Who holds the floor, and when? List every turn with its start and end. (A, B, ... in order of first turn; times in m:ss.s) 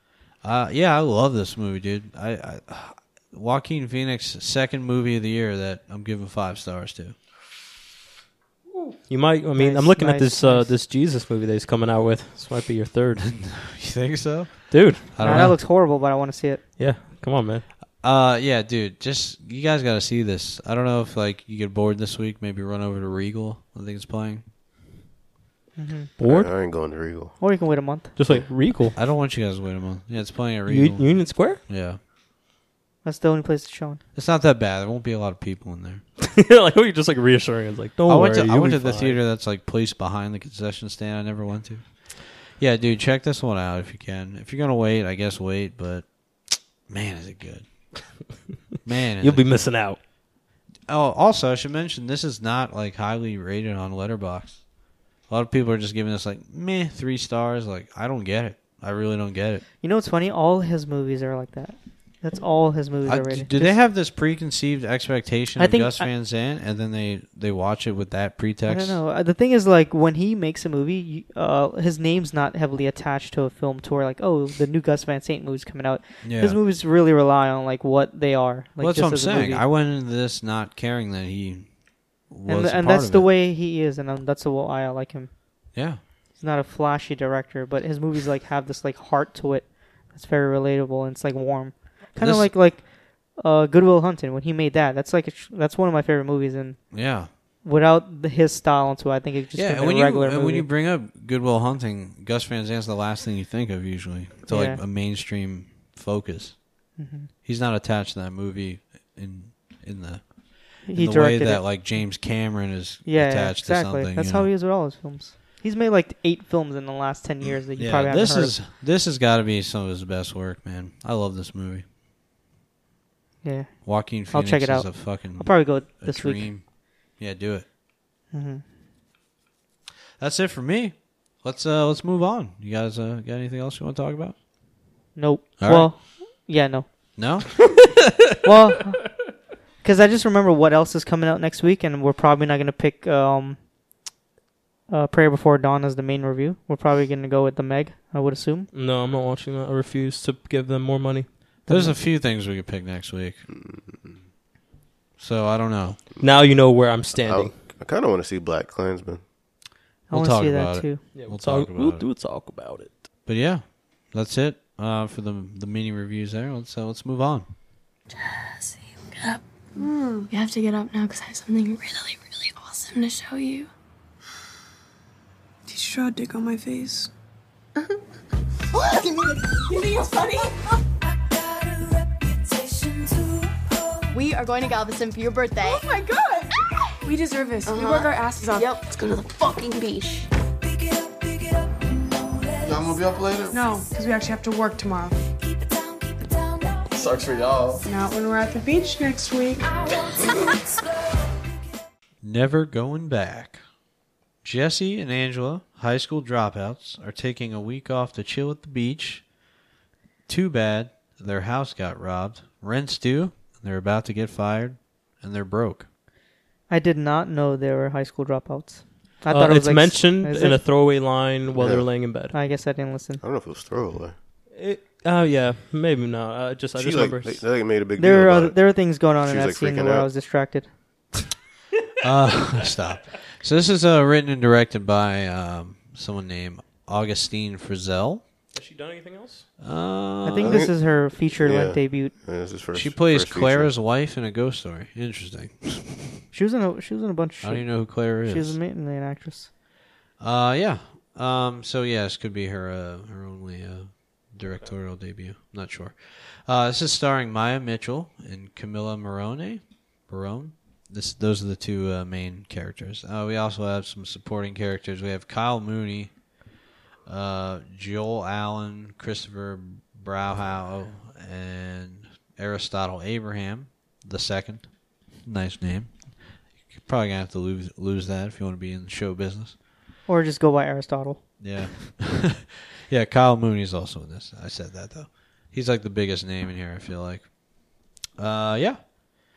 0:00.4-0:07.2 A
0:08.7-0:13.4 B
0:09.6-0:10.7 C
0:13.2-0:15.6 A
0:14.7-0:15.6 B
0:15.2-0:16.6 C
0:16.8-0:17.7 B
0:18.0-0:24.4 A
0:25.8-0:26.1 C
0:26.2-0:26.5 B
0:26.2-0:27.4 D
0:27.4-0:28.1 C
0:28.2-0:29.0 B
0:28.9-0:32.0 A
0:30.7-0:31.6 B
0:33.0-0:34.0 C
0:34.2-0:36.0 A
0:36.2-0:39.2 B
0:38.1-0:48.2 A
0:48.8-0:49.7 A
0:49.2-0:50.0 B
0:50.9-0:54.6 A
0:55.3-0:59.6 A
0:59.8-1:03.8 C
1:03.0-1:09.0 A
1:05.6-1:06.1 C
1:08.7-1:19.6 C
1:16.2-1:16.6 A
1:18.8-1:21.7 A
1:22.3-1:23.3 A
1:22.5-1:25.3 C
1:25.7-1:26.0 A
1:26.4-1:37.0 C
1:32.2-1:32.5 A
1:36.9-1:37.3 A
1:37.6-1:40.7 C
1:39.5-1:46.6 A
1:44.5-1:44.8 C
1:47.0-1:47.3 C
1:47.4-1:54.5 A
1:50.9-1:51.6 C
1:53.0-1:58.6 C
1:57.8-2:01.8 A
2:03.4-2:06.5 C
2:03.8-2:07.7 A
2:08.3-2:08.6 C
2:10.2-2:14.4 A
2:15.2-2:16.9 C
2:15.6-2:15.9 A
2:17.2-2:18.1 A
2:18.4-2:19.0 C
2:19.8-2:23.6 C
2:24.9-2:28.7 C
2:28.7-2:31.3 B
2:31.7-2:32.0 C
2:31.7-2:33.4 A
2:33.5-2:34.2 D
2:35.2-2:36.0 A
2:36.2-2:37.5 B
2:37.2-2:39.2 D
2:40.1-2:41.0 C
2:40.1-2:42.1 A
2:41.1-2:43.0 B
2:43.3-2:47.5 A
2:48.2-2:49.4 E
2:49.8-2:50.3 F
2:50.3-2:53.7 E
2:55.7-2:57.1 F
2:58.8-3:00.4 E
2:59.7-3:00.5 F
3:01.0-3:06.0 E
3:05.6-3:06.5 F
3:07.0-3:08.8 F
3:07.7-3:13.0 E
3:12.6-3:13.7 G
3:13.5-3:15.2 F
3:15.4-3:17.0 E
3:16.9-3:17.8 G
3:17.8-3:19.8 F
3:19.8-3:20.8 E
3:22.2-3:23.6 A
3:24.4-3:29.2 A
3:30.3-3:35.9 A
3:36.7-3:40.6 C
3:39.3-3:42.4 B
3:41.5-3:41.9 D
3:42.3-3:43.2 C
3:43.2-3:44.2 D
3:44.5-3:47.4 B
3:46.8-3:48.6 D
3:48.0-3:50.7 C
3:49.1-3:50.1 D
3:52.0-3:58.2 A
3:58.5-3:59.5 B
3:59.6-4:00.7 A
4:00.2-4:02.1 C
4:00.4-4:00.8 D
4:01.3-4:03.7 D
4:02.7-4:06.2 A
4:06.3-4:09.5 C
4:07.4-4:08.6 A
4:10.2-4:26.1 A
4:27.1-4:34.7 A
4:35.2-4:36.0 A
4:36.7-4:39.6 A
4:40.1-4:41.2 C
4:41.4-4:47.4 A
4:48.2-4:48.8 A